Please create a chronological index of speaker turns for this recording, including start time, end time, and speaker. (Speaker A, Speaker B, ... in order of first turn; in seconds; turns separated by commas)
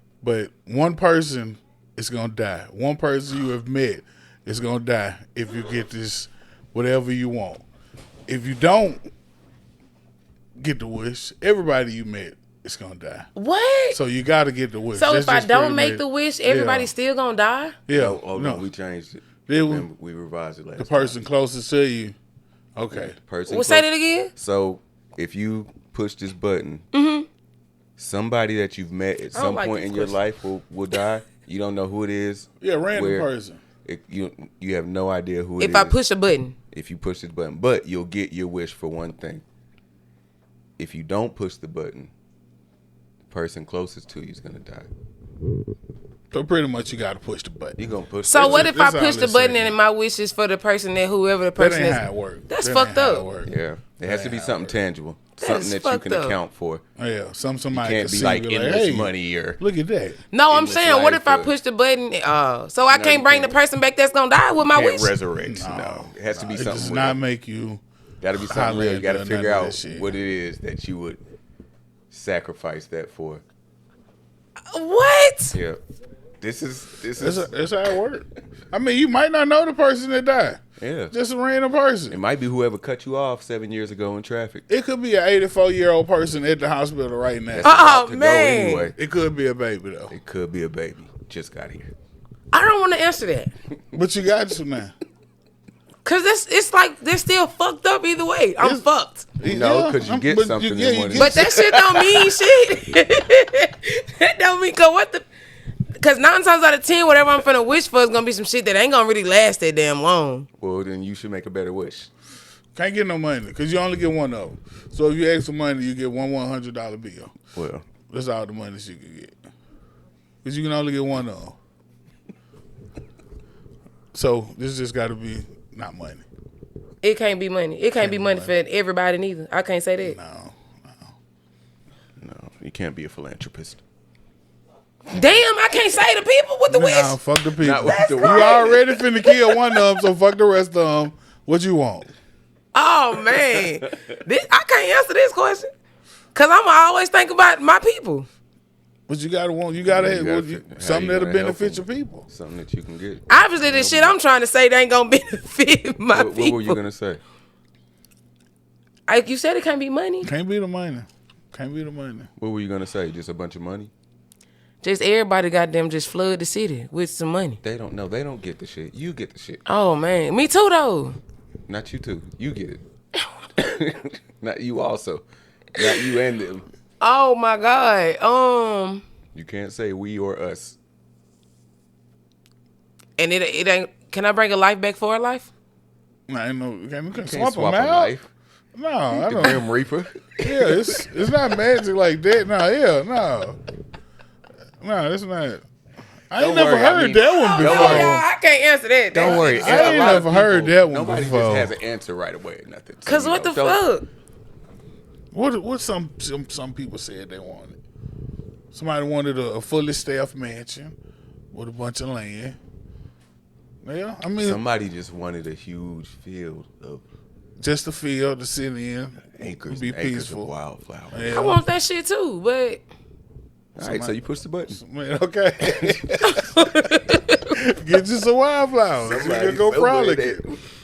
Speaker A: 0.2-7.6, Speaker A: 8.3-9.0, Speaker A: 10.6-13.3, Speaker B: 13.3-14.0, Speaker A: 13.9-16.9, Speaker B: 14.9-17.8, Speaker A: 17.9-18.7, Speaker C: 17.9-21.2, Speaker A: 19.5-19.9, Speaker A: 20.8-22.1, Speaker A: 22.8-23.1, Speaker C: 22.9-26.9, Speaker B: 23.5-24.3, Speaker B: 26.9-27.3, Speaker C: 28.0-33.3, Speaker B: 29.3-30.2, Speaker A: 32.6-33.6, Speaker C: 33.8-36.0, Speaker B: 35.6-36.5, Speaker C: 36.7-39.4, Speaker C: 40.8-42.1, Speaker C: 43.3-44.9, Speaker A: 46.3-49.7, Speaker C: 47.8-48.8, Speaker B: 48.2-53.3, Speaker A: 51.6-54.8, Speaker C: 53.4-56.8, Speaker B: 55.4-56.4, Speaker A: 57.0-60.2, Speaker C: 57.7-59.6, Speaker B: 60.3-65.2, Speaker C: 60.5-61.5, Speaker C: 62.9-63.6, Speaker C: 64.6-67.2, Speaker A: 65.4-67.8, Speaker C: 68.2-71.2, Speaker A: 68.4-70.1, Speaker C: 72.1-73.4, Speaker B: 74.7-75.5, Speaker C: 75.5-75.8, Speaker C: 76.4-77.5, Speaker A: 77.2-82.2, Speaker C: 80.8-81.1, Speaker C: 82.1-84.7, Speaker A: 84.7-87.9, Speaker C: 87.5-88.9, Speaker B: 87.6-88.9, Speaker A: 88.9-90.1, Speaker C: 90.1-91.9, Speaker B: 92.5-93.5, Speaker A: 93.9-94.9, Speaker B: 96.0-99.3, Speaker A: 99.4-101.6, Speaker C: 99.4-102.4, Speaker B: 101.1-105.2, Speaker B: 106.0-110.5, Speaker C: 110.6-112.1, Speaker A: 112.8-117.3, Speaker C: 117.5-117.8, Speaker A: 118.1-119.3, Speaker A: 120.4-121.6, Speaker A: 124.1-126.3, Speaker B: 127.0-130.2, Speaker A: 128.0-128.5, Speaker A: 130.0-131.1, Speaker C: 132.2-133.8, Speaker B: 135.1-137.2, Speaker A: 136.7-142.1, Speaker C: 137.6-138.8, Speaker B: 137.7-140.0, Speaker B: 142.7-145.7, Speaker B: 146.3-148.3, Speaker A: 149.1-152.3, Speaker C: 149.8-154.1, Speaker B: 153.3-156.8, Speaker C: 156.1-157.2, Speaker B: 159.1-160.3, Speaker A: 160.2-162.3, Speaker C: 162.4-163.9, Speaker B: 164.8-167.6, Speaker C: 167.6-169.6, Speaker B: 169.6-171.2, Speaker C: 171.7-172.8, Speaker C: 173.6-175.2, Speaker C: 175.7-176.7, Speaker B: 175.8-176.2, Speaker B: 177.0-179.0, Speaker C: 179.3-180.8, Speaker B: 183.2-185.5, Speaker A: 186.3-188.1, Speaker C: 187.1-188.3, Speaker A: 188.7-189.7, Speaker C: 189.1-191.5, Speaker A: 190.4-193.6, Speaker A: 194.8-195.6, Speaker A: 196.3-198.2, Speaker C: 196.4-198.2, Speaker B: 197.4-200.2, Speaker C: 199.1-203.8, Speaker A: 199.2-201.7, Speaker B: 203.1-204.1, Speaker A: 205.3-207.8, Speaker A: 208.7-210.9, Speaker A: 211.5-212.6, Speaker A: 213.8-214.6, Speaker C: 214.4-217.0, Speaker A: 217.6-220.5, Speaker C: 219.3-221.4, Speaker A: 221.1-221.7, Speaker B: 221.3-222.8, Speaker C: 223.8-224.8, Speaker A: 223.8-226.6, Speaker C: 225.6-226.2, Speaker B: 226.2-227.6, Speaker A: 227.5-230.4, Speaker C: 229.0-230.6